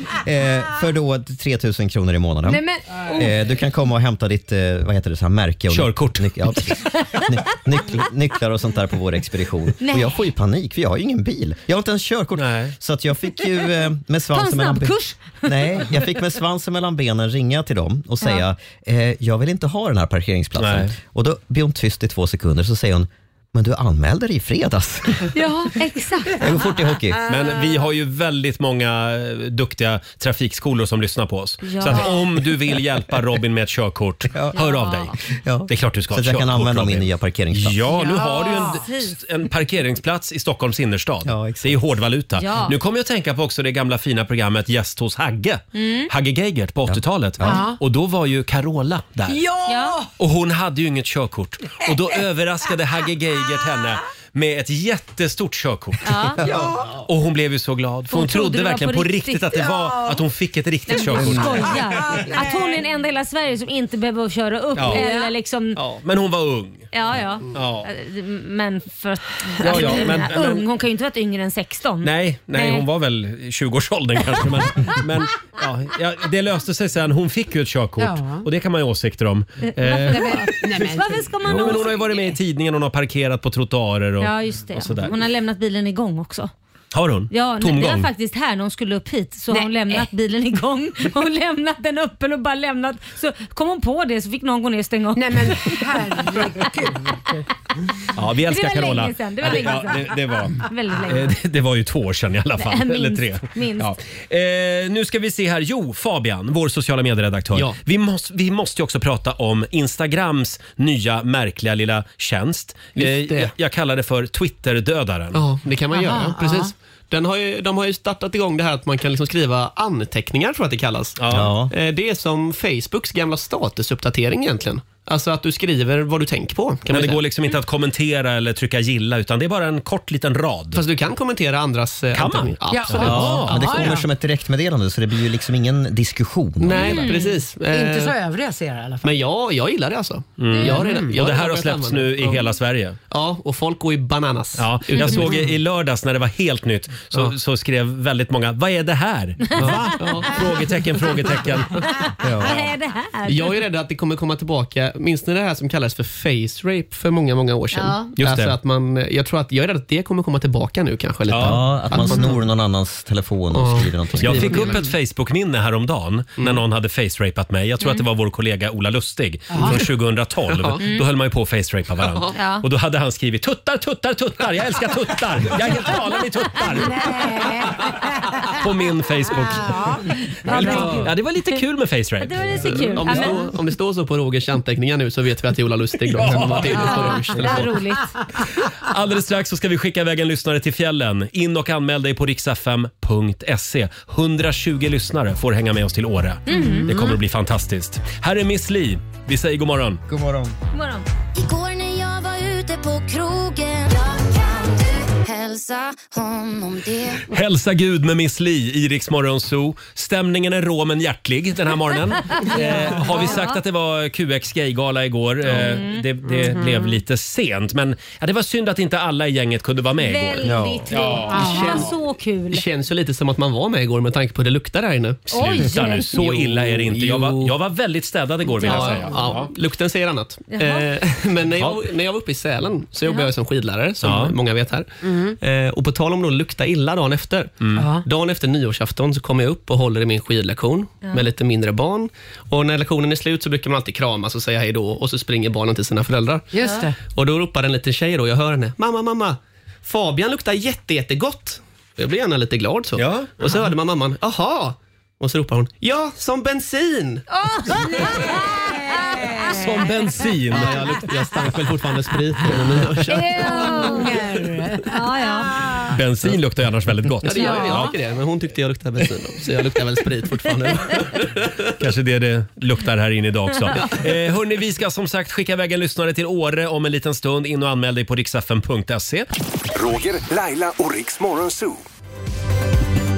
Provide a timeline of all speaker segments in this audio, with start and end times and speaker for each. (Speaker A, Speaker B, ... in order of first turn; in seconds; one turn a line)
Speaker A: 0.2-25.3
Speaker B: 2.5-3.3
Speaker C: 5.7-6.6
Speaker B: 9.8-10.2
Speaker C: 12.3-12.7
Speaker B: 14.3-15.9
Speaker C: 20.6-20.9
Speaker B: 25.3-26.5
Speaker A: 26.4-27.2
Speaker C: 27.3-35.1
Speaker B: 31.6-32.1
Speaker B: 34.5-35.1
Speaker A: 35.3-37.9
Speaker C: 35.7-49.5
Speaker D: 38.0-38.8
Speaker B: 38.4-39.1
Speaker A: 41.2-41.8
Speaker B: 42.4-42.7
Speaker B: 45.7-46.1
Speaker A: 46.9-47.6
Speaker D: 47.4-47.8
Speaker D: 49.3-50.1
Speaker B: 49.7-50.0
Speaker C: 50.2-56.5
Speaker D: 51.9-52.1
Speaker B: 56.0-56.4
Speaker D: 56.4-57.0
Speaker C: 57.1-62.0
Speaker B: 58.1-59.6
Speaker D: 59.6-60.2
Speaker B: 60.9-65.8
Speaker D: 61.9-62.8
Speaker C: 64.8-65.0
Speaker D: 64.9-65.3
Speaker C: 65.8-66.9
Speaker B: 66.9-72.8
Speaker C: 67.5-67.9
Speaker C: 69.6-70.6
Speaker C: 72.0-80.8
Speaker D: 78.0-78.5
Speaker B: 79.6-82.2
Speaker D: 80.1-81.8
Speaker C: 81.4-85.1
Speaker B: 84.2-86.5
Speaker C: 86.9-88.1
Speaker B: 87.3-95.8
Speaker D: 89.5-90.1
Speaker D: 95.2-97.4
Speaker C: 98.1-115.4
Speaker B: 98.5-101.3
Speaker B: 102.6-103.9
Speaker E: 112.9-113.5
Speaker E: 115.3-127.2
Speaker D: 115.9-116.7
Speaker C: 121.2-121.5
Speaker A: 121.3-121.7
Speaker C: 126.9-130.8
Speaker E: 130.7-133.8
Speaker C: 132.1-133.9
Speaker D: 132.7-134.0
Speaker A: 133.0-137.1
Speaker E: 136.6-138.2
Speaker B: 136.7-137.4
Speaker D: 137.0-139.1
Speaker E: 139.0-142.4
Speaker C: 140.4-143.0
Speaker B: 140.5-141.0
Speaker D: 140.8-141.1
Speaker E: 143.1-145.5
Speaker C: 144.6-151.8
Speaker E: 149.6-150.3
Speaker B: 149.6-150.3
Speaker B: 152.0-153.5
Speaker A: 152.2-152.7
Speaker E: 153.2-162.4
Speaker B: 157.7-158.1
Speaker C: 158.2-158.5
Speaker C: 161.3-161.7
Speaker A: 161.3-164.8
Speaker E: 163.5-164.9
Speaker C: 164.1-177.6
Speaker D: 169.5-169.8
Speaker E: 170.5-170.8
Speaker B: 170.8-171.0
Speaker E: 172.0-172.3
Speaker B: 172.3-172.6
Speaker D: 176.7-178.3
Speaker C: 178.4-183.3
Speaker D: 179.3-181.1
Speaker B: 180.4-181.6
Speaker B: 182.2-183.5
Speaker E: 182.7-187.8
Speaker C: 186.1-187.3
Speaker B: 186.7-188.1
Speaker C: 188.6-200.0
Speaker B: 196.5-197.2
Speaker D: 196.5-196.9
Speaker A: 200.1-200.5
Speaker B: 200.7-201.1
Speaker F: 201.3-207.2
Speaker C: 207.3-221.5
Speaker B: 212.3-213.6
Speaker D: 212.5-213.3
Speaker B: 215.5-216.0
Speaker D: 216.3-216.9
Speaker B: 220.0-222.6
Speaker A: 220.4-220.9
Speaker D: 221.1-221.9
Speaker E: 221.3-221.9
Speaker E: 222.5-227.5
Speaker C: 225.3-229.5
Speaker B: 225.3-226.1
Speaker E: 228.6-246.5
Speaker B: 228.6-229.2
Speaker B: 230.5-230.9
Speaker C: 234.0-234.3
Speaker D: 235.0-235.4
Speaker D: 237.7-238.1
Speaker D: 246.5-246.9
Speaker E: 247.1-257.2
Speaker C: 253.0-253.3
Speaker B: 257.3-259.6
Speaker D: 258.0-259.3
Speaker C: 259.5-260.9
Speaker E: 260.5-263.9
Speaker B: 263.1-264.2
Speaker D: 263.2-265.9
Speaker B: 264.9-265.7
Speaker C: 265.9-267.9
Speaker E: 267.2-271.7
Speaker D: 267.3-267.9
Speaker B: 267.4-267.9
Speaker C: 271.8-279.3
Speaker G: 279.7-281.8